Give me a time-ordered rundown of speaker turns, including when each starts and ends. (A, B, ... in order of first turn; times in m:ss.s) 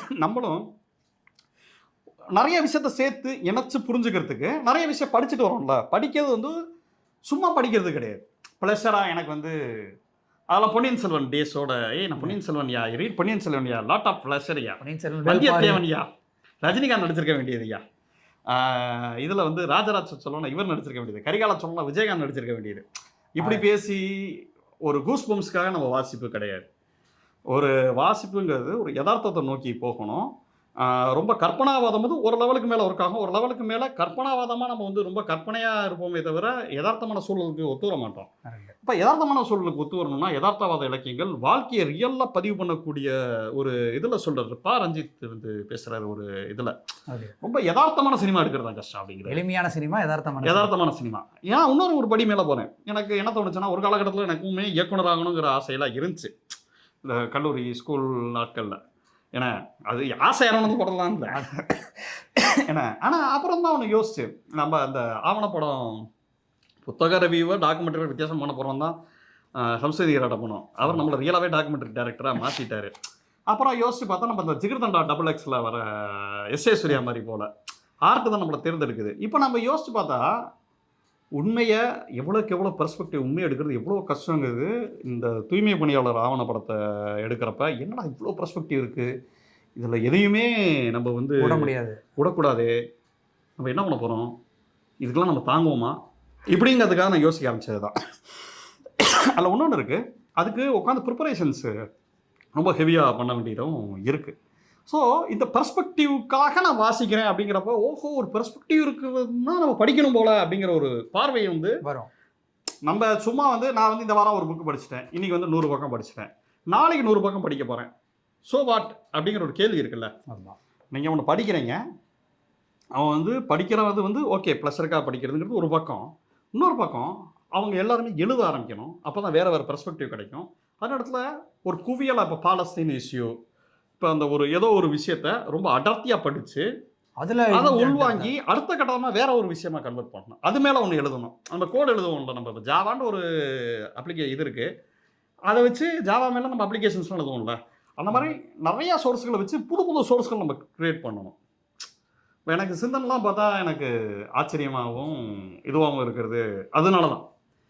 0:00.2-0:00.6 A
0:02.3-0:06.5 A
0:07.3-0:09.8 A
0:10.5-0:16.1 A
0:14.8-0:15.8 B
0:16.6-0:17.8 A
0:18.5-0:22.8 A
0:23.4-0:26.7 A
0:27.5-0:30.3 A
0:30.8-0:38.3 A
0:38.4-0:38.7 B
0:38.8-0:46.7 A
0:47.1-0:47.3 B
0:47.4-0:49.4 A
0:49.3-0:50.7 B
0:50.4-0:56.3 A
0:57.0-0:58.8 A
0:59.3-1:06.0 A
1:01.3-1:01.6 B
1:06.8-1:08.9 A
1:09.6-1:12.9 A
1:13.5-1:17.5 A
1:18.1-1:20.2 A
1:21.4-1:29.1 A
1:29.8-1:32.7 A
1:31.4-1:32.0 B
1:33.6-1:34.3 A
1:35.0-1:36.0 A
1:36.5-1:38.0 A
1:39.0-1:41.7 A
1:42.5-1:44.3 A
1:44.9-1:51.8 A
1:51.8-1:52.1 B
1:52.8-1:57.9 A
1:58.5-2:00.1 A
2:00.3-2:00.6 B
2:00.9-2:01.8 A
2:02.9-2:13.3 A
2:14.0-2:16.6 A
2:17.2-2:18.3 B
2:17.5-2:24.7 A
2:25.5-2:31.4 A
2:32.5-2:37.2 A